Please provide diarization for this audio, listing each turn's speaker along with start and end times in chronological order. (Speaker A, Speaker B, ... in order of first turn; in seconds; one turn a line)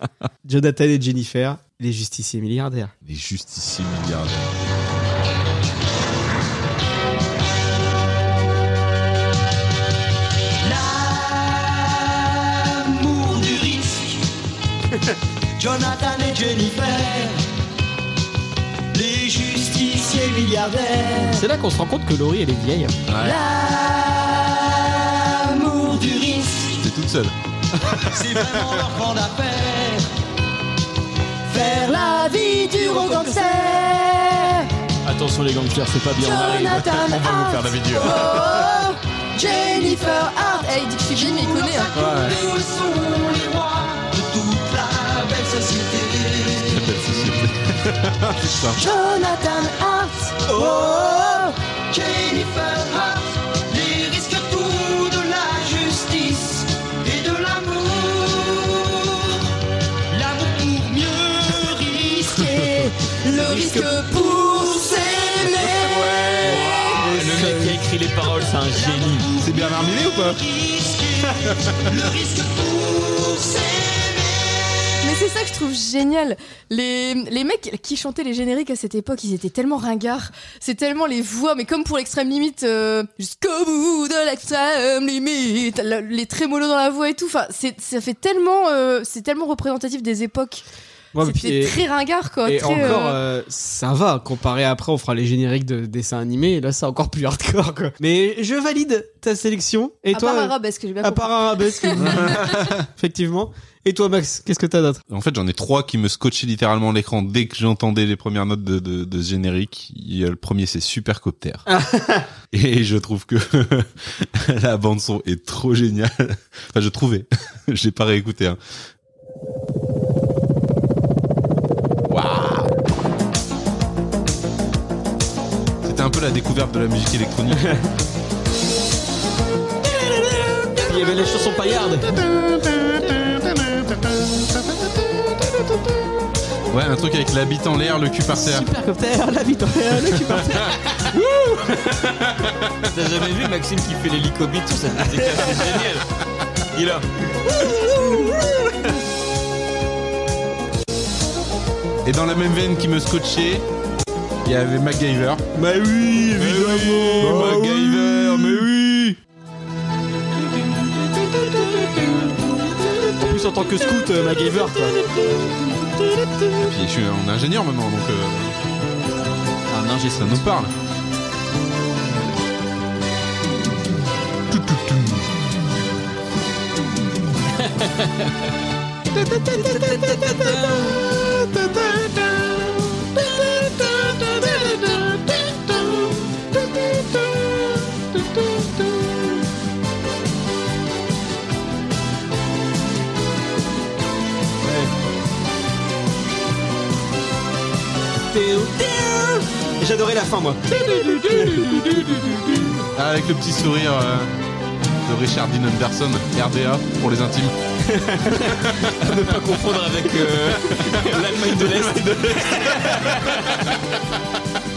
Speaker A: 0.4-2.9
Speaker B: 3.0-4.5
Speaker C: 10.6-14.2
Speaker C: 15.6-17.4
Speaker C: 18.9-21.4
Speaker A: 21.3-22.9
Speaker B: 23.1-23.4
Speaker C: 23.2-26.7
Speaker B: 26.8-27.3
Speaker C: 28.1-30.0
Speaker B: 28.3-28.8
Speaker C: 31.5-33.6
Speaker D: 32.8-33.9
Speaker E: 35.0-37.2
Speaker D: 36.2-39.0
Speaker B: 36.8-38.5
Speaker D: 40.0-41.9
Speaker C: 41.4-46.6
Speaker B: 41.9-42.4
Speaker B: 46.6-48.8
Speaker C: 48.8-49.1
Speaker C: 50.5-58.9
Speaker C: 60.1-62.6
Speaker A: 63.4-63.9
Speaker C: 63.5-65.7
Speaker E: 66.3-69.3
Speaker C: 66.5-67.0
Speaker A: 67.0-67.8
Speaker C: 68.9-69.6
Speaker B: 69.4-70.4
Speaker C: 70.5-71.0
Speaker B: 71.5-71.9
Speaker C: 71.9-74.3
Speaker D: 75.0-90.6
Speaker A: 91.1-91.8
Speaker D: 91.2-93.2
Speaker A: 92.4-105.0
Speaker D: 100.1-102.5
Speaker B: 102.0-102.8
Speaker B: 105.1-111.6
Speaker A: 111.7-112.3
Speaker B: 112.5-118.6
Speaker B: 122.1-122.7
Speaker B: 125.8-127.8
Speaker A: 130.8-132.2
Speaker B: 132.1-135.6
Speaker B: 136.7-138.7
Speaker A: 138.3-141.8
Speaker B: 140.1-140.7
Speaker E: 142.9-146.0
Speaker E: 146.7-147.0
Speaker A: 147.6-148.7
Speaker B: 152.0-153.7
Speaker B: 154.4-155.4
Speaker A: 155.5-159.2
Speaker B: 156.3-158.7
Speaker A: 163.2-164.9
Speaker B: 166.6-168.6
Speaker E: 169.7-170.4
Speaker B: 170.1-170.7
Speaker B: 174.5-175.2
Speaker E: 177.7-178.3
Speaker B: 179.2-180.3
Speaker E: 179.6-181.0
Speaker B: 181.6-182.2
Speaker A: 194.6-194.9
Speaker A: 198.3-202.7
Speaker B: 202.9-204.3
Speaker B: 205.0-207.5
Speaker A: 207.8-209.4
Speaker E: 209.0-213.7
Speaker B: 212.4-212.9